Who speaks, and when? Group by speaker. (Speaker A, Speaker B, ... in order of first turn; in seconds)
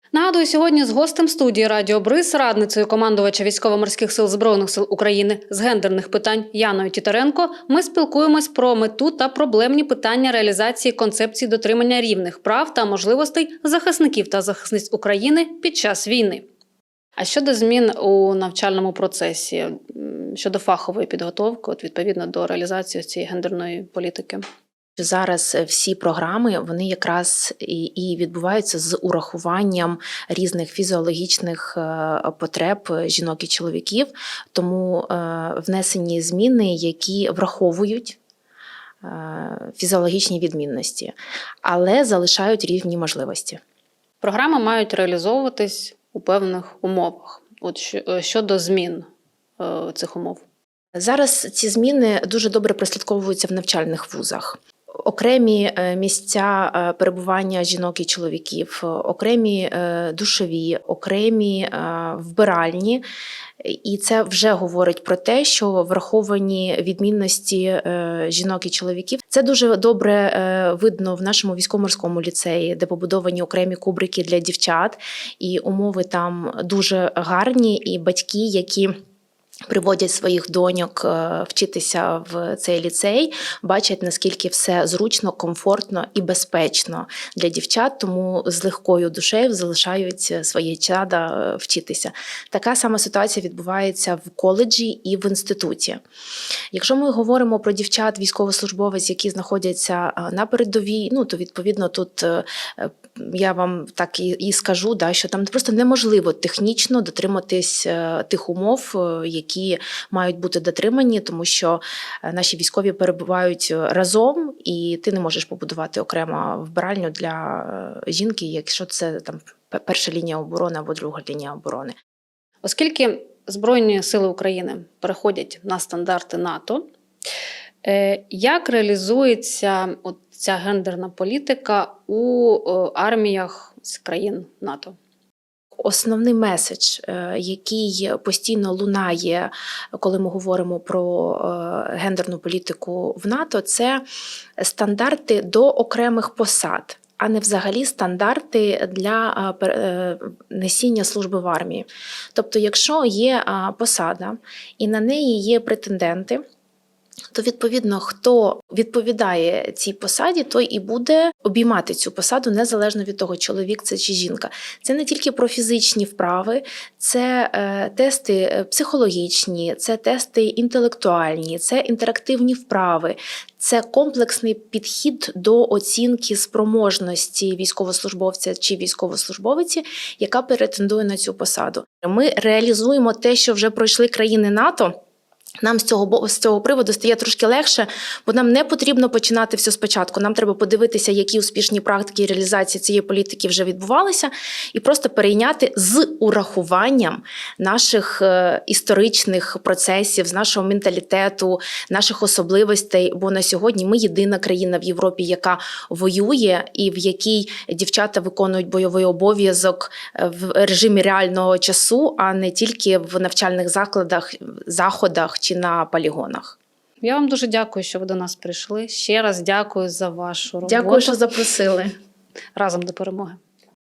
Speaker A: 0.1-16.4, 17.2-24.4, 44.2-49.1, 49.6-50.4, 122.6-126.8, 127.8-134.9, 217.0-221.2, 222.5-223.4
Speaker B: 25.0-38.2, 39.0-43.6, 50.9-63.0, 63.6-78.9, 79.7-96.0, 96.7-121.9, 135.8-144.0, 144.6-156.4, 157.3-184.9, 185.6-216.6, 220.6-221.9